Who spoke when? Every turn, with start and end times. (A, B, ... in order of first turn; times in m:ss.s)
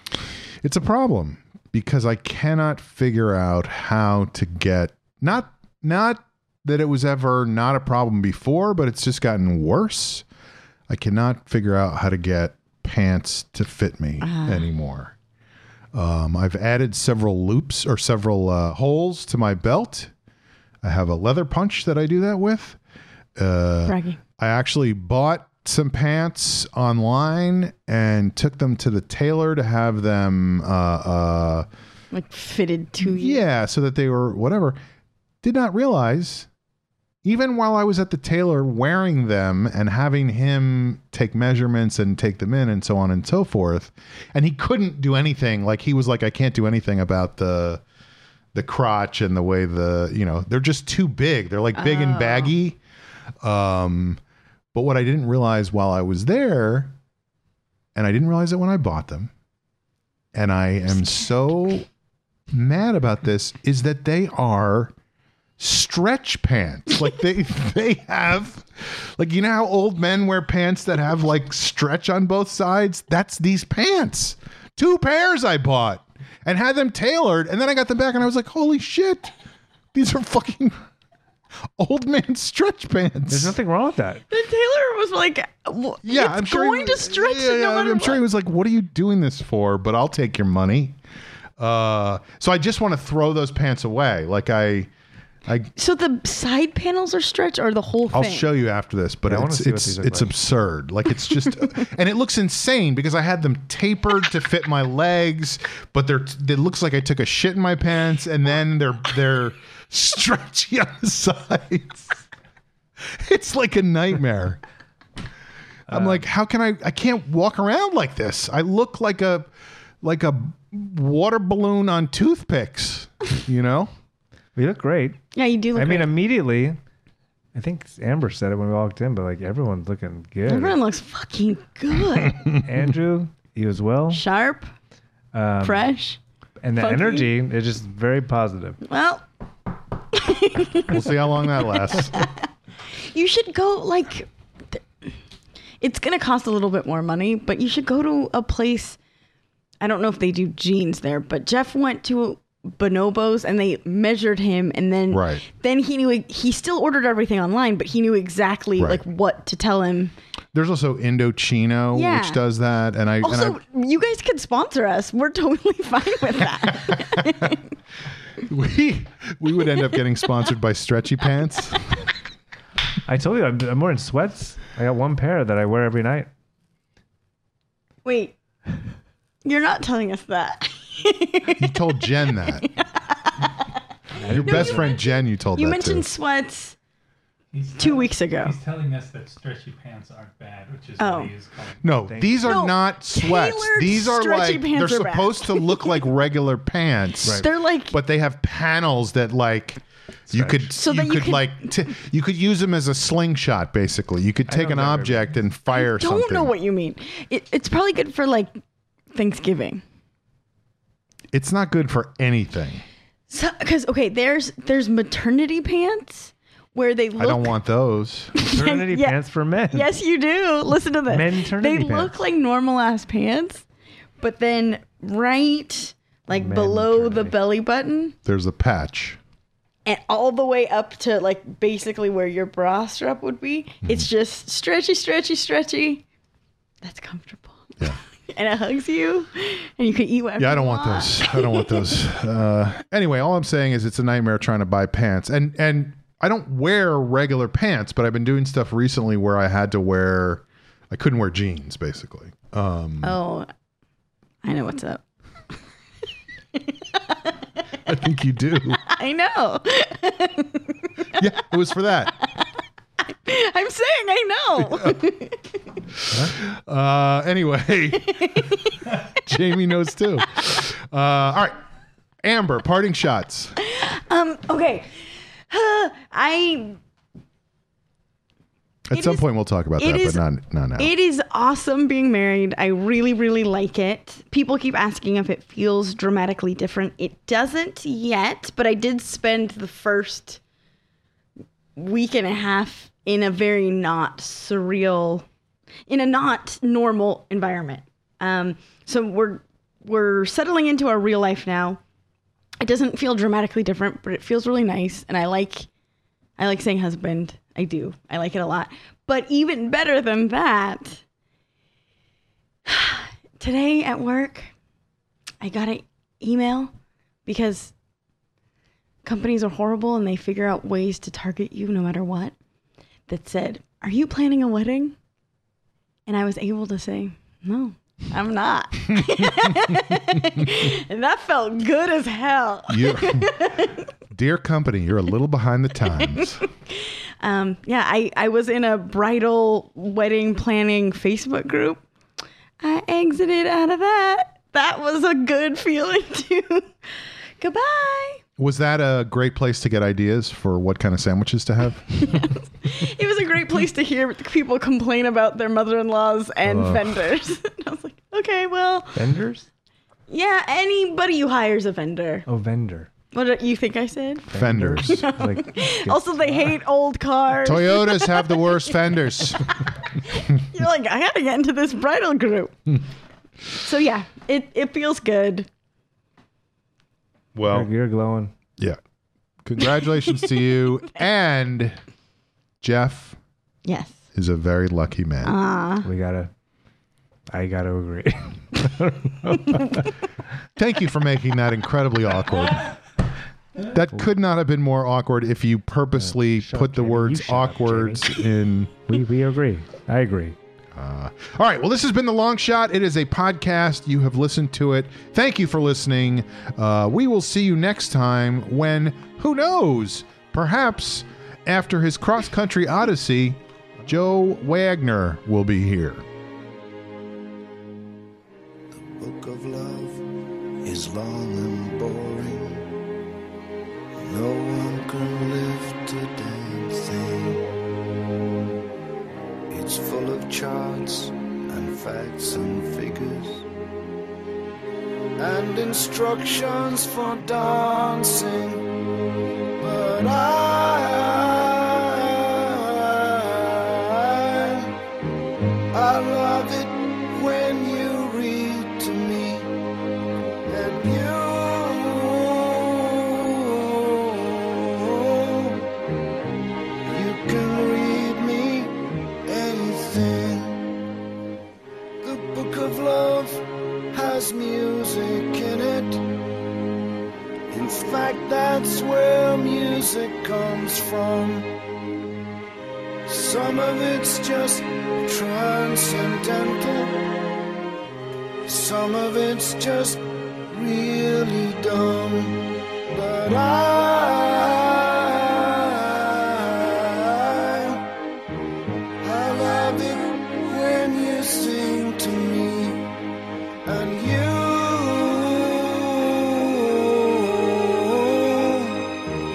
0:00.6-0:10.2 A
0:10.9-0:15.1 A
0:14.2-0:14.7 B
0:15.9-0:20.1 A
0:20.8-0:22.8 A
0:23.4-0:31.7 A
0:23.8-0:24.2 B
0:32.1-0:33.4 B
0:33.0-0:34.8 A
0:35.4-0:36.5 A
0:37.2-0:47.8 A
0:48.5-0:52.8 A
0:51.8-0:52.6 B
0:53.4-0:54.2 A
0:54.7-0:56.9 A
0:58.0-0:59.3 A
1:00.3-1:01.9 A
1:02.5-1:04.9 A
1:05.6-1:19.3 A
1:19.9-1:20.8 A
1:21.8-1:23.6 A
1:23.3-1:24.2 C
1:24.3-1:28.2 B
1:26.0-1:31.0 A
1:31.6-1:34.9 A
1:35.5-1:35.7 A
1:35.8-1:38.5 B
1:38.1-1:52.2 A
1:39.3-1:40.3 C
1:53.0-1:54.6 A
1:55.9-1:56.2 C
1:55.9-1:59.5 A
2:00.0-2:03.9 A
2:04.6-2:05.2 C
2:05.3-2:06.1 B
2:05.8-2:06.8 C
2:07.5-2:10.8 C
2:10.5-2:12.5 B
2:12.6-2:14.2 C
2:14.1-2:14.7 B
2:15.3-2:15.9 C
2:15.6-2:16.2 B
2:16.6-2:18.8 C
2:16.8-2:17.3 B
2:18.9-2:19.2 B
2:20.1-2:22.5 B
2:20.9-2:22.3 A
2:23.0-2:25.1 B
2:25.8-2:29.0 B
2:29.8-2:40.1 B
2:35.1-2:35.4 A
2:40.5-2:43.6 A
2:41.9-2:42.4 B
2:43.2-2:47.6 B
2:48.4-2:52.1 A
2:53.1-2:56.3 C
2:58.0-2:58.3 B
2:59.4-3:03.7 B
3:01.6-3:02.7 A
3:04.2-3:04.9 C
3:04.3-3:06.1 A
3:04.3-3:06.8 B
3:07.5-3:11.9 D
3:07.8-3:08.5 B
3:11.0-3:11.3 B
3:11.8-3:26.5 A
3:12.1-3:12.6 C
3:12.4-3:16.0 B
3:17.4-3:18.0 B
3:20.3-3:20.6 C
3:20.7-3:21.6 B
3:24.5-3:25.3 C
3:25.7-3:28.6 B
3:29.1-3:29.8 B
3:31.3-3:32.8 A
3:33.3-3:37.5 B
3:37.2-3:38.3 A
3:38.4-3:39.2 B
3:38.4-3:39.9 C
3:39.7-3:43.6 B
3:41.1-3:42.2 C
3:44.2-3:48.2 B
3:46.3-3:47.4 C
3:48.2-3:49.2 A
3:49.8-3:56.0 B
3:56.8-4:01.9 B
4:00.4-4:13.2 A
4:13.0-4:13.5 B
4:14.4-4:15.0 B
4:16.6-4:17.3 B
4:17.9-4:18.8 A
4:18.9-4:21.1 B
4:21.2-4:22.1 A
4:23.2-4:25.6 B
4:26.2-4:28.5 A
4:27.9-4:28.8 B
4:29.2-4:31.6 A
4:32.2-4:33.6 A
4:33.6-4:36.8 B
4:38.9-4:40.9 A
4:38.9-4:39.2 B
4:39.8-4:40.2 B
4:40.8-4:50.4 B
4:51.8-4:55.3 B
4:55.9-5:01.8 B
5:02.6-5:05.7 B
5:06.4-5:11.0 B
5:12.7-5:14.5 B
5:15.4-5:16.7 B
5:17.3-5:17.7 B
5:19.0-5:22.4 B
5:23.1-5:25.0 B
5:26.1-5:33.9 B
5:32.7-5:33.4 A
5:34.1-5:36.4 A
5:36.1-5:41.8 B
5:42.6-5:46.7 B
5:47.4-5:48.2 B
5:48.4-5:52.3 A
5:52.0-5:59.1 B
5:56.4-5:57.0 A
5:58.9-5:59.5 C
6:00.1-6:02.3 B
6:02.3-6:02.9 C
6:03.1-6:08.7 B
6:04.3-6:06.6 C
6:04.3-6:05.1 A
6:07.4-6:09.5 A
6:09.4-6:12.8 B
6:13.6-6:15.5 B
6:17.4-6:17.7 A
6:17.5-6:18.3 C
6:19.4-6:21.8 A
6:22.6-6:23.2 A
6:23.7-6:24.0 B
6:24.2-6:25.4 A
6:25.2-6:25.9 B
6:25.8-6:26.3 C
6:27.3-6:29.9 C
6:30.6-6:32.8 A
6:33.6-6:38.8 A
6:36.0-6:38.2 C
6:38.9-6:40.4 C
6:40.8-6:56.0 A
6:58.7-7:00.1 E
7:00.6-7:02.7 E
7:04.0-7:07.5 E
7:09.5-7:13.5 E
7:15.2-7:18.7 E
7:19.6-7:24.7 E
7:25.7-7:29.5 E
7:30.5-7:35.6 E
7:36.9-7:40.8 E
7:42.0-7:46.0 E
7:47.5-7:51.5 E
7:53.1-7:57.1 E
7:58.4-8:07.9 E
8:09.0-8:12.9 E
8:13.6-8:18.8 E